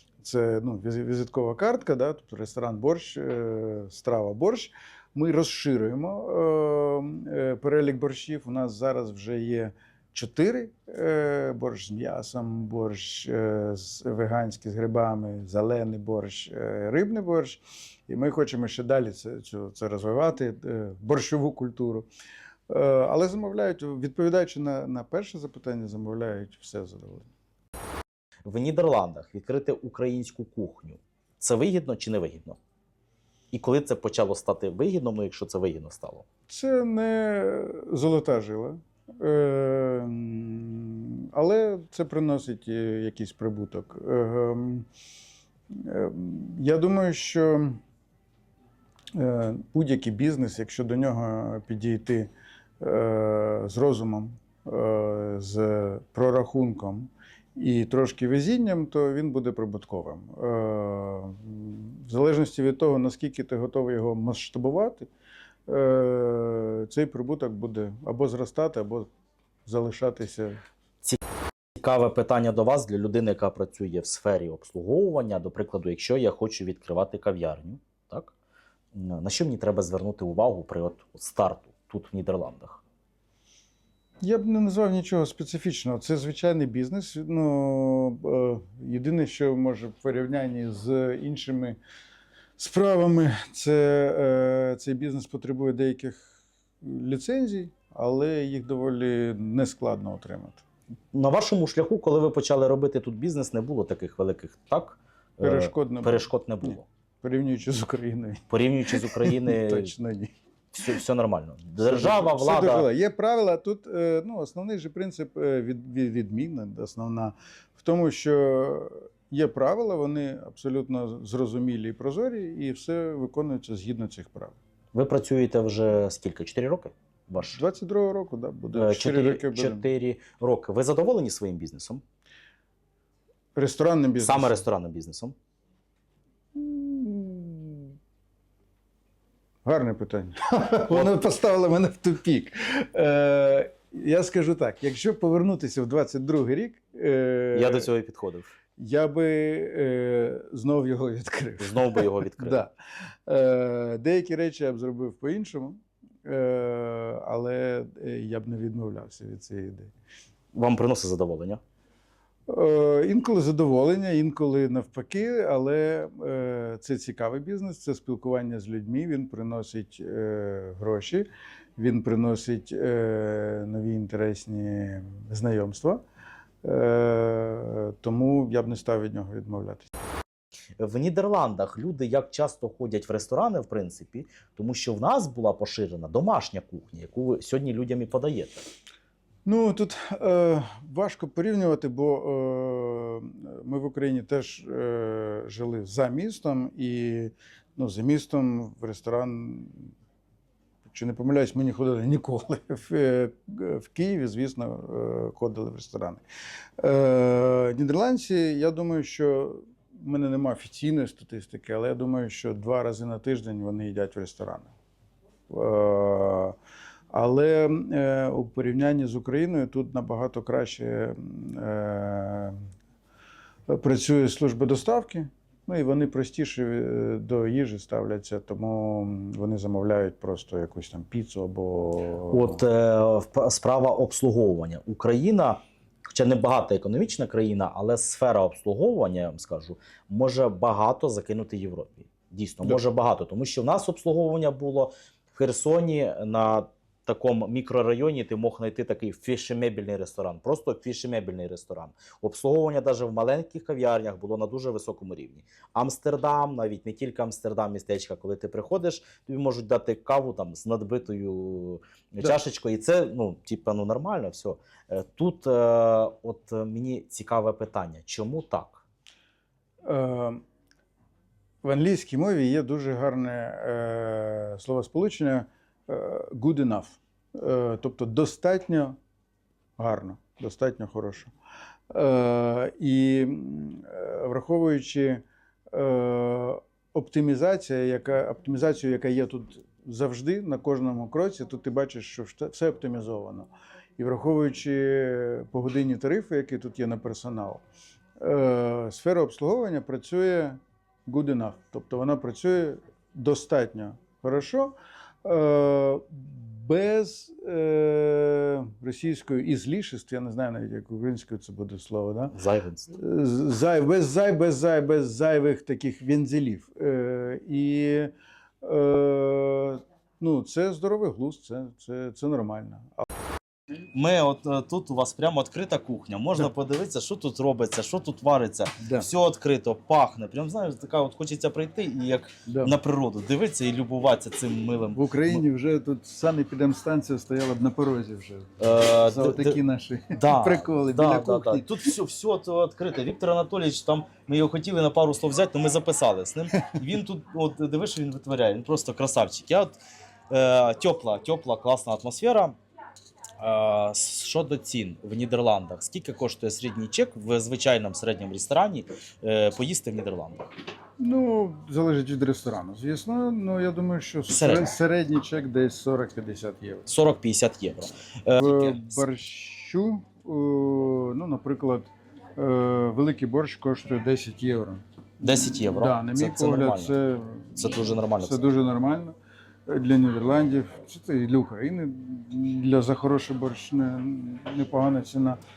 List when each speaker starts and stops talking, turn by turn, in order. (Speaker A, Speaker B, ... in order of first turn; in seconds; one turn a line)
Speaker A: 0.2-22.1
Speaker A: 22.7-27.2
Speaker B: 28.4-32.6
Speaker B: 33.5-36.2
Speaker A: 36.5-44.9
Speaker A: 45.7-47.8
Speaker A: 49.1-65.1
Speaker A: 65.7-69.1
Speaker A: 69.7-70.6
Speaker B: 71.8-78.3
Speaker B: 78.9-82.8
Speaker A: 84.2-91.8
Speaker A: 92.6-100.6
Speaker B: 101.1-106.8
Speaker A: 105.4-110.3
Speaker B: 108.5-109.9
Speaker B: 110.7-112.9
Speaker A: 111.8-124.5
Speaker B: 124.9-127.6
Speaker A: 127.5-129.8
Speaker B: 128.7-132.0
Speaker A: 133.6-134.6
Speaker B: 134.2-135.3
Speaker A: 136.6-137.9
Speaker A: 139.6-147.9
Speaker B: 147.5-148.5
Speaker A: 148.8-152.7
Speaker B: 151.6-152.6
Speaker A: 153.3-159.9
Speaker B: 160.5-161.6
Speaker A: 162.5-176.0
Speaker A: 176.6-179.9
Speaker B: 180.8-188.6
Speaker A: 189.4-199.9
Speaker A: 200.8-206.2
Speaker A: 206.8-214.7
Speaker A: 215.5-216.5
Speaker A: 217.1-222.6
Speaker A: 223.7-232.6
Speaker B: 232.3-235.6
Speaker B: 236.1-268.8
Speaker A: 269.8-270.4
Speaker A: 271.6-278.9
Speaker A: 279.8-281.3
Speaker A: 281.9-297.6
Speaker A: 298.2-312.3
Speaker B: 312.3-312.9
Speaker A: 312.9-318.1
Speaker A: 318.6-323.0
Speaker B: 323.9-335.4
Speaker A: 328.8-329.1
Speaker A: 332.5-332.8
Speaker A: 334.9-341.9
Speaker B: 338.6-339.6
Speaker B: 340.1-349.8
Speaker B: 350.3-352.6
Speaker B: 353.4-360.5
Speaker A: 361.0-366.9
Speaker B: 364.3-364.7
Speaker B: 366.9-369.0
Speaker A: 368.4-379.1
Speaker B: 375.2-376.9
Speaker B: 377.6-378.4
Speaker A: 379.7-385.4